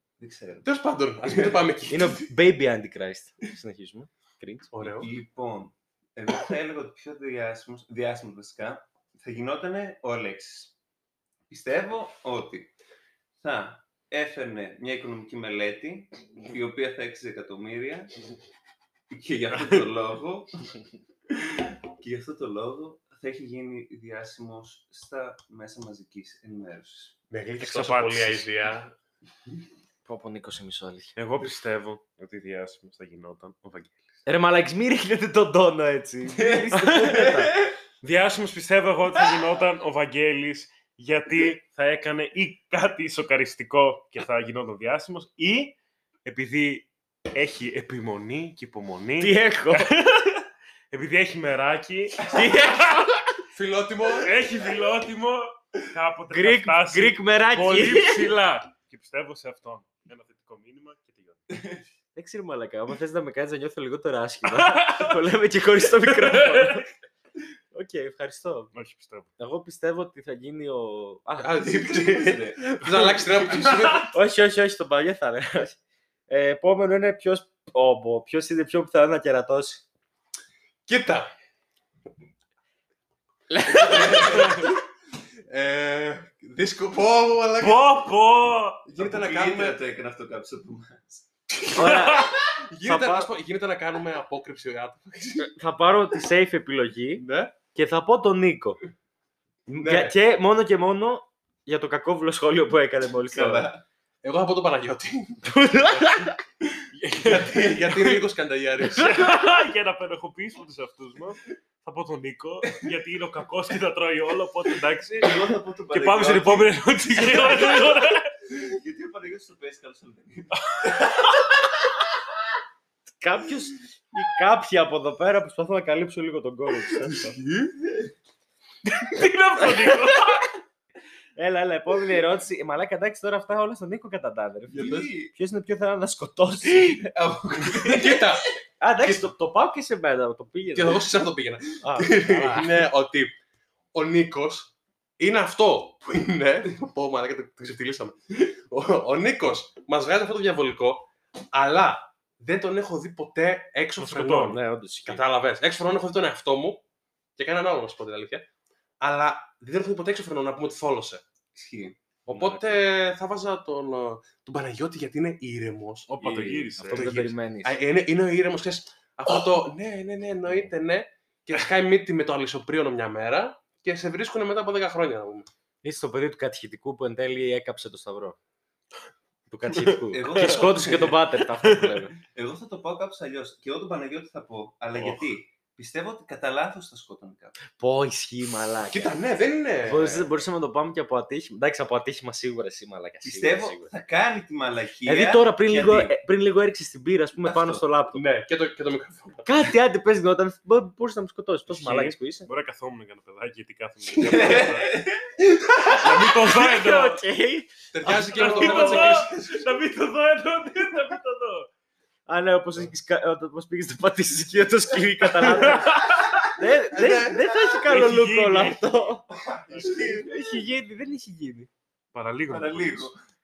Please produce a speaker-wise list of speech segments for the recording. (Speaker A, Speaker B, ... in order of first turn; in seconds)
Speaker A: 0.2-0.7, 1.2-1.6, 4.8-10.7, 11.5-12.7, 13.4-18.1, 19.1-20.5, 21.3-27.1, 36.3-37.7, 71.6-74.1, 83.7-84.7, 89.0-91.2, 103.3-103.8, 107.5-107.8, 115.2-121.4, 134.7-135.3, 136.6-138.4, 161.5-162.0, 180.1-181.2, 182.2-187.6, 193.2-196.1, 197.4-197.8, 204.2-205.4, 219.4-220.4, 222.5-223.2
Speaker B: 0.6-2.2, 4.7-5.1, 27.3-28.9, 53.5-54.4, 71.4-74.2, 80.9-81.3, 83.9-84.7, 85.5-88.0, 88.8-89.8, 92.7-95.5, 97.2-97.5, 99.8-100.1, 104.2-106.0, 107.2-109.2, 127.1-127.7, 134.8-135.1, 137.6-138.5, 139.0-139.3, 140.7-143.3, 143.9-156.8, 157.4-158.4, 159.0-161.2, 162.3-175.5, 188.9-190.3, 198.1-199.5, 207.9-209.7, 216.9-217.3
Speaker C: 1.9-4.7, 30.0-31.1, 34.2-37.6, 49.2-49.9, 52.2-53.4, 56.3-58.3, 62.1-66.9, 67.7-68.7, 69.4-71.6, 74.1-79.8, 83.5-84.6, 91.7-93.3, 95.4-97.2, 97.7-98.8, 99.7-103.7, 105.4-106.4, 109.0-109.5, 123.2-127.4, 129.6-130.5, 131.3-137.0, 138.8-141.1, 141.8-142.8, 154.4-155.2, 162.3-162.8, 166.8-167.8, 175.8-178.3, 179.5-182.1, 187.8-189.1, 189.8-193.9, 195.1-198.2, 199.4-202.5, 206.2-209.2, 212.3-219.2, 219.8-221.7
Speaker D: 19.5-19.8, 27.6-28.4, 31.1-34.0, 36.7-37.3, 38.0-52.7, 54.2-61.4, 64.5-65.2, 66.0-66.8, 68.7-69.3, 87.6-88.8, 91.7-92.3, 106.9-107.7, 108.9-118.3, 120.5-121.3, 129.0-130.4, 154.0-154.6, 166.2-167.1, 179.7-180.8, 181.6-182.0, 184.9-185.3, 201.7-205.0, 205.9-207.2, 208.1-211.7, 215.4-216.4, 217.8-218.9, 222.1-223.1